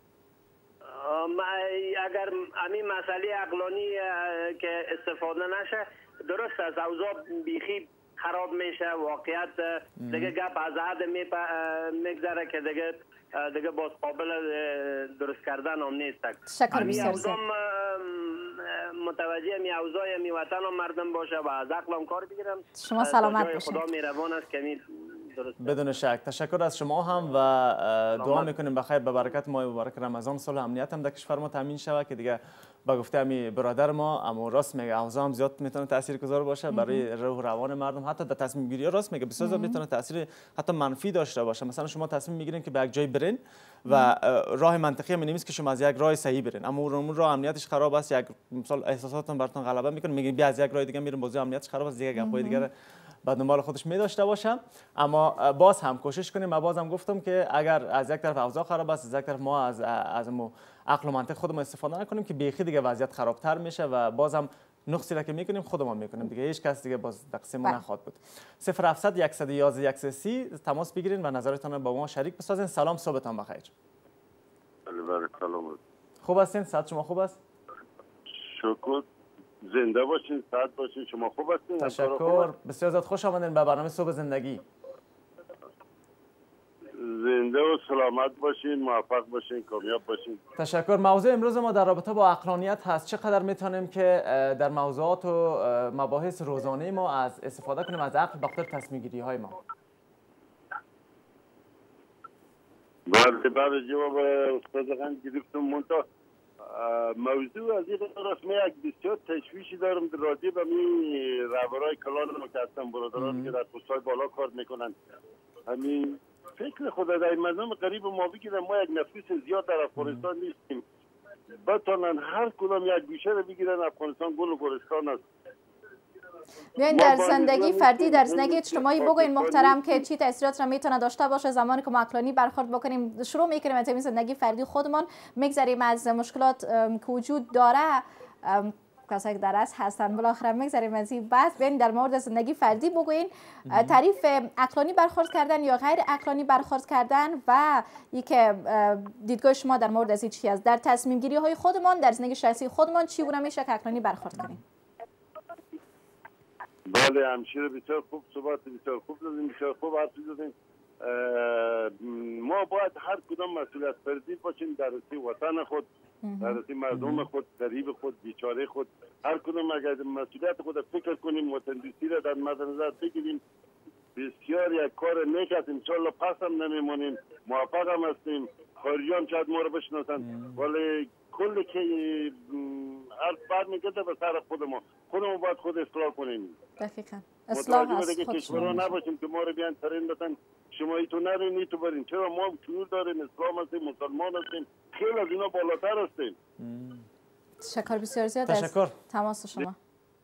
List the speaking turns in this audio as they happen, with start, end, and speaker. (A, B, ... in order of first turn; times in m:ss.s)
0:00.9-0:25.8 A
0:10.0-0:10.3 B
0:16.5-0:17.4 C
0:16.7-0:17.2 B
0:22.8-0:23.8 C
0:25.6-0:52.7 B
0:28.2-0:28.5 A
0:36.7-0:37.1 C
0:39.4-0:39.8 C
0:52.2-0:52.7 C
0:53.2-1:13.7 B
1:14.9-1:15.8 D
1:16.2-1:17.4 B
1:18.3-1:19.0 D
1:19.6-1:22.5 D
1:21.8-1:24.6 B
1:27.0-1:30.4 D
1:30.6-1:39.6 B
1:43.1-1:46.0 D
1:46.7-1:55.0 D
1:53.2-1:53.6 B
1:55.7-2:00.8 D
2:00.0-2:00.3 B
2:01.6-2:05.2 D
2:06.8-2:34.6 C
2:06.9-2:10.0 D
2:23.7-2:24.0 B
2:36.9-2:45.9 D
2:46.2-2:46.6 C
2:46.4-2:53.4 D
2:46.9-2:47.3 B
2:54.2-3:06.6 D
3:00.2-3:00.6 B
3:06.8-3:08.9 C
3:07.5-3:16.4 D
3:08.5-3:08.8 B
3:16.6-3:17.1 B
3:17.6-3:19.8 C
3:18.5-3:19.0 B